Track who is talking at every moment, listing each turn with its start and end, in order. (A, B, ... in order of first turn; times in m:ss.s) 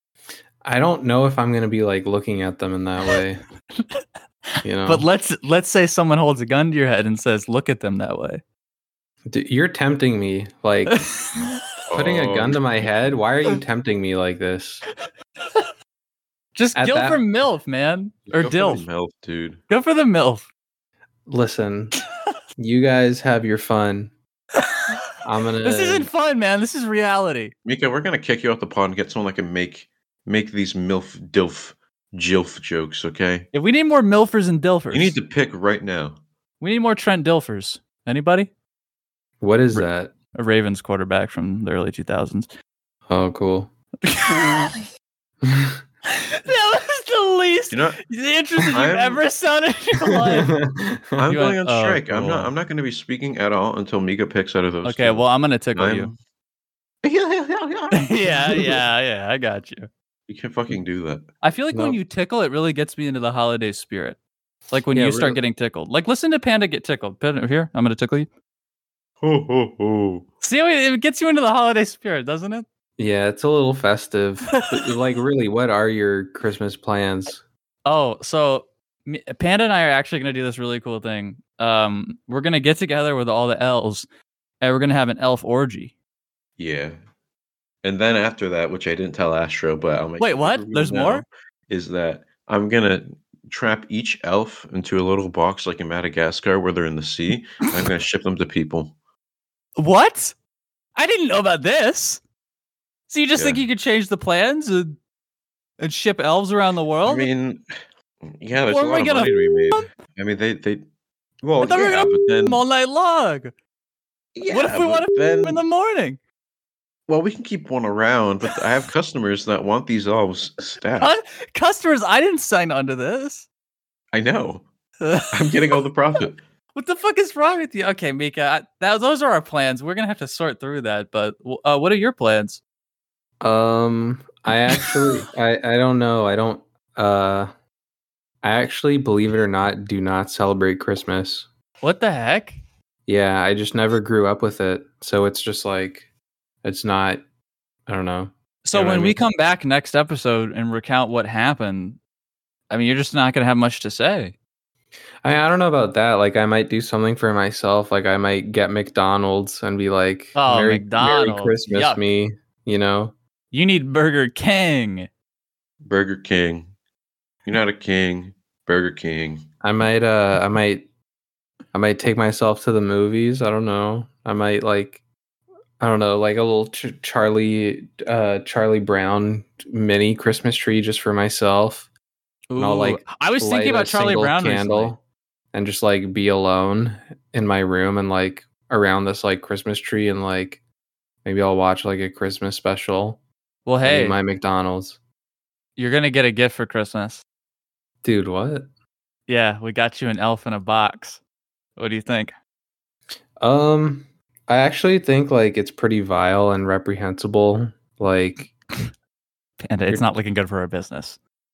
0:00.6-0:03.4 A
0:03.8-0:04.0 B
0:04.6-0:08.4 B
0:04.6-0:05.1 A
0:09.3-0:11.1 A
0:10.9-0:11.6 B
0:11.9-0:12.9 C
0:11.9-0:14.8 A
0:16.6-0:18.8 B
0:16.7-0:17.2 A
0:18.3-0:19.6 C
0:19.7-0:20.4 B
0:21.3-0:22.0 A
0:22.6-0:24.1 A
0:24.6-0:25.0 B
0:25.2-0:26.1 A
0:25.6-0:27.5 B
0:27.6-0:33.5 C
0:33.5-0:35.2 B
0:34.9-0:36.2 C
0:36.6-0:38.5 B
0:39.4-0:40.1 A
0:39.7-0:42.5 B
0:43.1-0:43.7 A
0:44.0-0:44.8 B
0:45.4-0:45.8 A
0:46.3-0:50.5 B
0:47.7-0:48.0 C
0:48.6-0:49.2 C
0:50.1-0:51.3 A
0:51.2-0:56.2 C
0:51.3-0:52.5 B
0:54.8-0:56.1 B
0:57.0-0:58.5 C
0:57.9-0:59.9 B
1:00.3-1:01.2 C
1:01.4-1:04.2 B
1:01.7-1:02.0 A
1:04.7-1:08.3 B
1:04.9-1:05.4 A
1:09.2-1:10.2 C
1:10.4-1:12.6 B
1:13.0-1:17.4 A
1:17.8-1:24.1 B
1:24.6-1:25.9 B
1:26.6-1:27.0 C
1:27.8-1:38.9 C
1:30.2-1:31.2 B
1:39.8-1:40.3 B
1:41.0-1:42.2 B
1:43.1-1:45.0 B
1:43.4-1:43.6 C
1:45.8-1:47.3 B
1:47.0-1:47.6 C
1:48.2-1:50.8 C
1:48.7-1:49.9 B
1:51.4-1:52.6 C
1:51.6-1:53.5 B
1:54.4-1:55.6 C
1:54.5-1:56.2 B
1:57.1-2:01.1 C
2:01.0-2:03.4 B
2:04.1-2:04.6 C
2:05.0-2:05.6 B
2:05.3-2:06.4 C
2:06.7-2:12.6 B
2:13.4-2:17.5 A
2:14.7-2:15.1 B
2:18.4-2:21.5 A
2:21.8-2:22.6 B
2:23.1-2:26.1 A
2:26.6-2:27.2 A
2:27.9-2:29.2 A
2:28.6-2:32.0 B
2:32.7-2:34.3 B
2:35.2-2:43.1 A
2:40.4-2:42.0 B
2:43.5-2:45.1 B
2:45.8-2:46.7 C
2:47.4-2:49.4 C
2:49.6-2:50.9 A
2:51.7-2:55.0 A
2:55.8-3:01.9 A
3:02.5-3:04.9 B
3:02.6-3:05.0 A
3:05.5-3:10.6 A
3:11.2-3:13.2 A
3:13.6-3:14.2 B
3:13.8-3:15.0 A
3:15.8-3:17.2 B
3:18.0-3:18.7 A
3:19.3-3:21.2 B
3:21.8-3:22.3 B
3:23.4-3:28.5 A
3:29.6-3:31.2 B